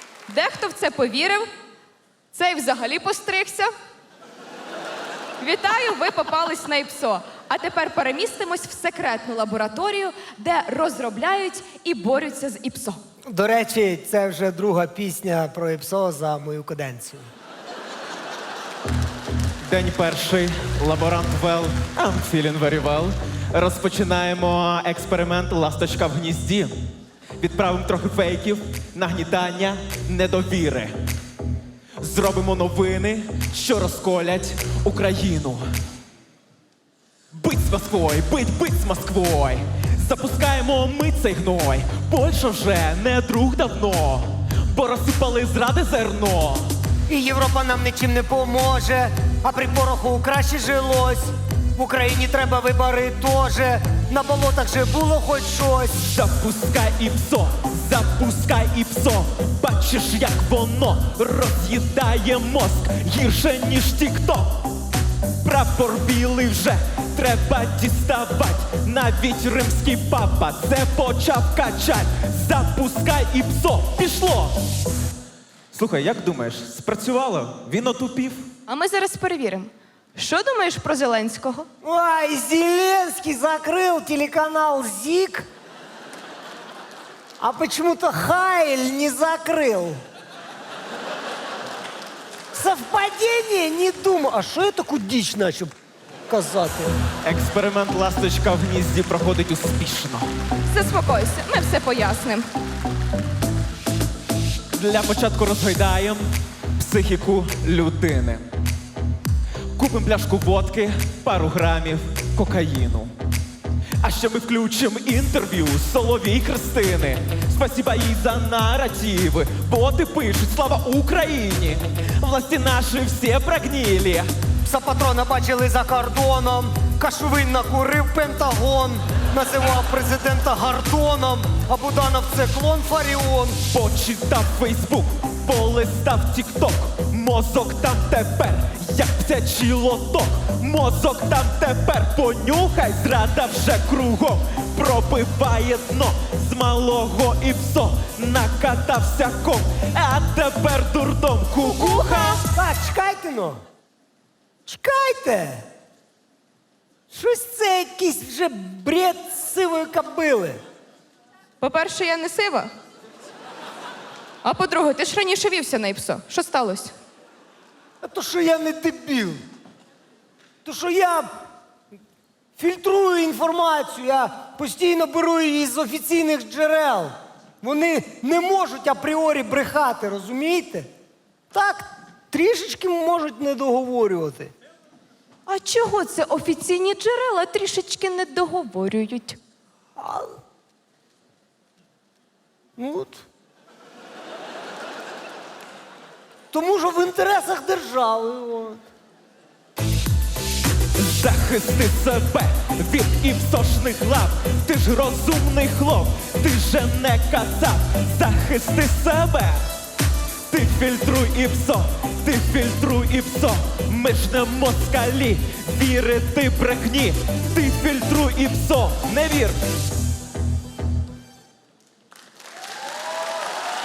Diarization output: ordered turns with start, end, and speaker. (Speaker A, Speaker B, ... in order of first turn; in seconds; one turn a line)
Speaker A: 0.3-1.5
Speaker A: 2.3-3.7
Speaker A: 5.4-13.0
Speaker B: 13.3-17.3
Speaker C: 19.6-26.7
Speaker C: 27.4-30.9
Speaker C: 32.0-35.6
Speaker C: 37.3-46.7
Speaker B: 47.1-56.0
Speaker C: 56.0-64.6
Speaker C: 65.4-74.6
Speaker C: 75.7-78.5
Speaker A: 78.7-81.7
Speaker B: 81.8-85.5
Speaker B: 87.4-90.0
Speaker B: 92.5-95.7
Speaker B: 96.3-97.0
Speaker C: 97.2-100.3
Speaker A: 100.7-102.5
Speaker C: 104.8-106.2
Speaker C: 106.8-108.5
Speaker C: 109.8-113.1
Speaker C: 114.0-124.3
Speaker B: 124.7-133.6
Speaker C: 133.7-152.4
Speaker B: 151.9-153.6
Speaker B: 154.7-155.7
Speaker B: 157.1-160.6
Speaker A: 161.6-162.7
Speaker A: 164.4-166.9
Speaker B: 168.0-169.4
Speaker B: 170.7-171.3
Speaker B: 172.6-180.9
Speaker B: 181.5-184.5
Speaker A: 185.5-189.4
Speaker B: 190.0-190.3
Speaker B: 192.8-193.2
Speaker B: 196.5-198.8
Speaker C: 201.0-209.6
Speaker C: 210.5-219.6